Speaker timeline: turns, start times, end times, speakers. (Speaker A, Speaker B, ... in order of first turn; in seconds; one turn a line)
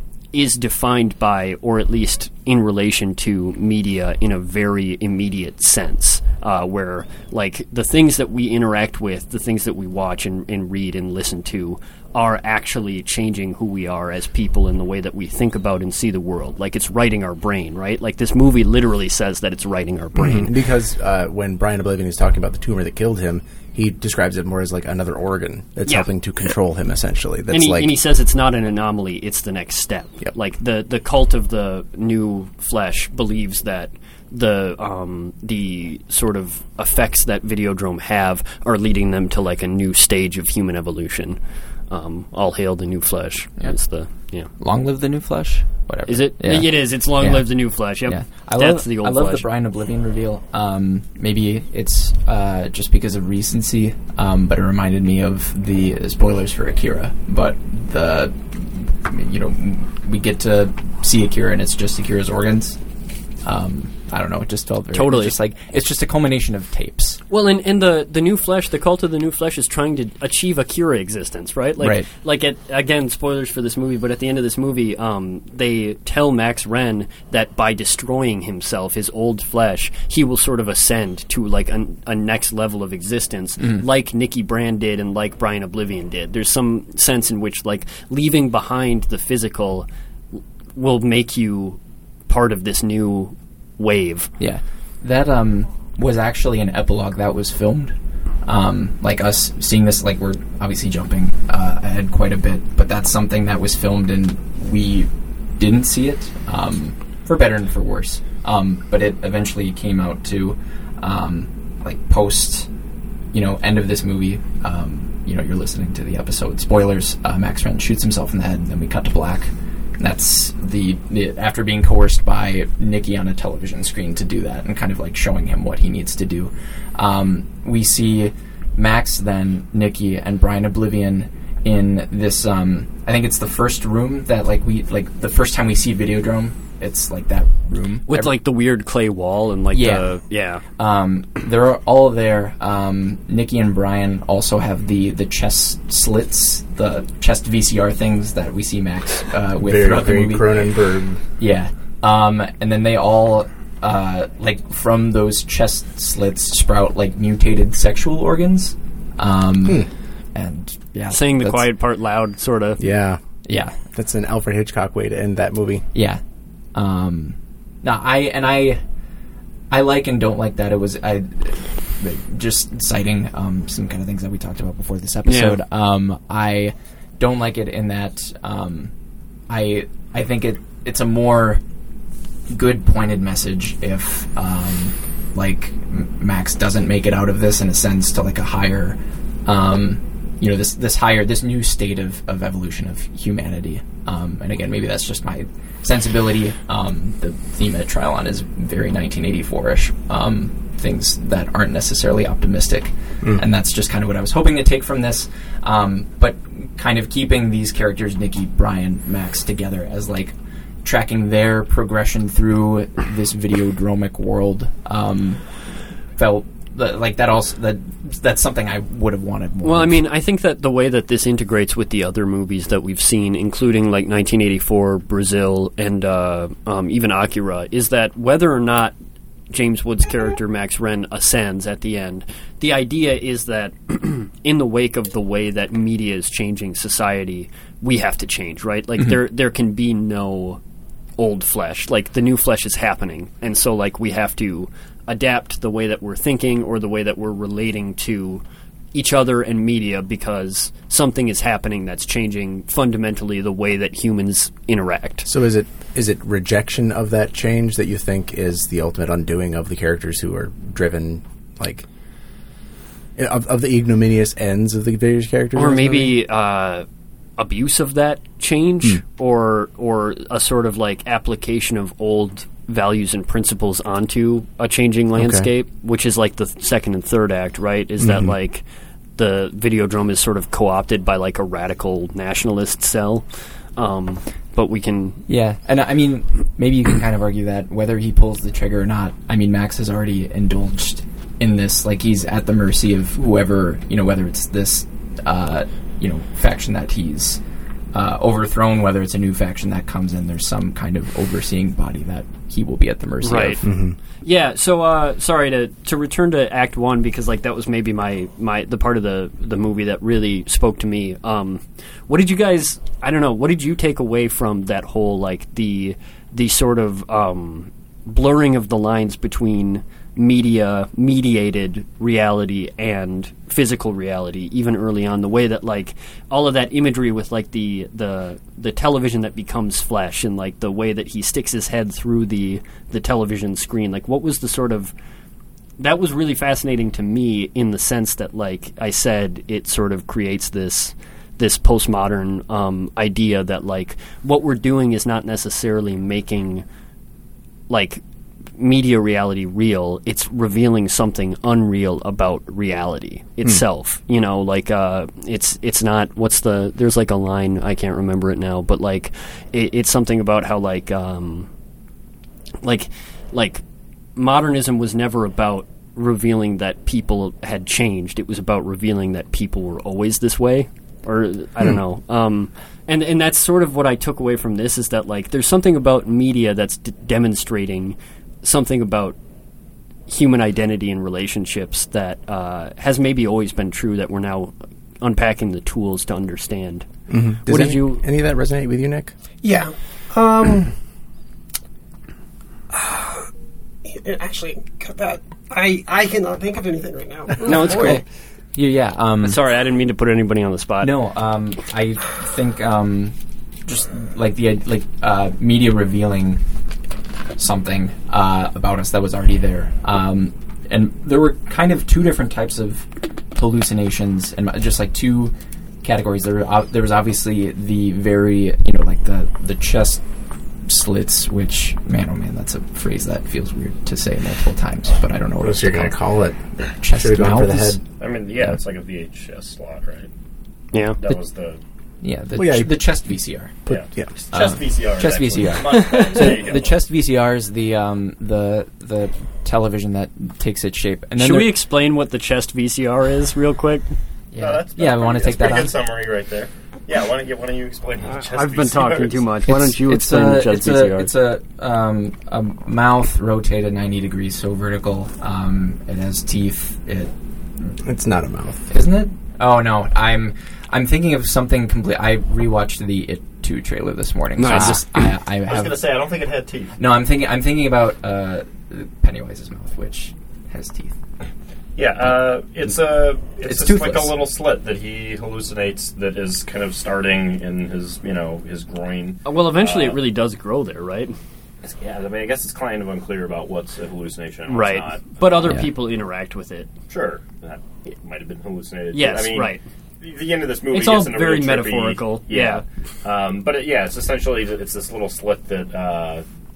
Speaker A: 0.3-20.5
Speaker B: 20.1-27.9
Speaker A: 27.5-41.4
Speaker A: 41.9-44.5
Speaker C: 44.6-62.8
Speaker A: 46.1-49.5
Speaker C: 63.4-67.2
Speaker A: 64.9-65.4
Speaker A: 67.3-89.9
Speaker C: 71.8-72.1
Speaker A: 90.8-94.3
Speaker C: 94.4-112.7
Speaker C: 113.3-138.3
Speaker A: 138.1-140.6
Speaker C: 139.7-140.1
Speaker C: 140.8-150.7
Speaker B: 149.6-151.2
Speaker C: 151.4-161.7
Speaker A: 161.1-162.8
Speaker B: 162.8-163.2
Speaker C: 163.5-163.8
Speaker B: 163.9-165.9
Speaker C: 165.9-166.2
Speaker C: 166.7-168.8
Speaker C: 169.7-178.9
Speaker A: 175.3-175.6
Speaker C: 179.5-181.6
Speaker C: 182.5-215.4
Speaker C: 216.2-220.1
Speaker A: 219.6-228.9
Speaker A: 229.5-240.6
Speaker A: 241.2-248.4
Speaker A: 248.9-255.3
Speaker B: 255.2-261.9
Speaker B: 263.2-266.2
Speaker A: 265.5-266.9
Speaker A: 267.4-278.6
Speaker B: 275.2-275.5
Speaker B: 278.0-278.3
Speaker A: 279.2-285.2
Speaker C: 285.3-297.4
Speaker C: 297.9-303.6
Speaker A: 303.2-303.6
Speaker B: 303.6-304.0
Speaker A: 304.2-334.9
Speaker A: 335.8-346.7
Speaker A: 347.7-348.0
Speaker A: 348.6-361.5
Speaker A: 362.6-363.6
Speaker A: 364.2-379.2
Speaker A: 380.1-386.9
Speaker B: 387.1-389.1
Speaker A: 387.5-388.0
Speaker D: 389.4-390.7
Speaker D: 392.7-393.2
Speaker D: 393.9-398.0
Speaker A: 397.4-398.0
Speaker C: 397.5-398.0
Speaker C: 398.6-399.4
Speaker A: 399.2-400.9
Speaker C: 400.8-403.1
Speaker C: 403.7-406.4
Speaker C: 407.4-420.0
Speaker C: 420.7-425.9
Speaker B: 425.4-426.4
Speaker C: 426.6-427.8
Speaker B: 426.9-427.8
Speaker E: 428.0-430.1
Speaker A: 430.7-431.0
Speaker E: 431.0-431.6
Speaker C: 432.0-433.6
Speaker B: 432.4-432.9
Speaker B: 433.7-434.1
Speaker E: 433.7-436.8
Speaker C: 434.3-441.6
Speaker A: 435.7-436.4
Speaker A: 441.2-443.9
Speaker C: 444.3-445.8
Speaker E: 444.4-449.3
Speaker A: 448.1-451.1
Speaker C: 449.5-457.8
Speaker B: 457.8-458.7
Speaker C: 458.7-465.9
Speaker A: 464.4-465.1
Speaker E: 465.5-466.8
Speaker C: 466.8-470.9
Speaker E: 471.8-480.0
Speaker C: 473.5-474.1
Speaker A: 479.2-481.2
Speaker E: 481.6-485.6
Speaker A: 484.5-486.7
Speaker E: 486.9-496.2
Speaker A: 488.9-489.6
Speaker A: 490.7-492.6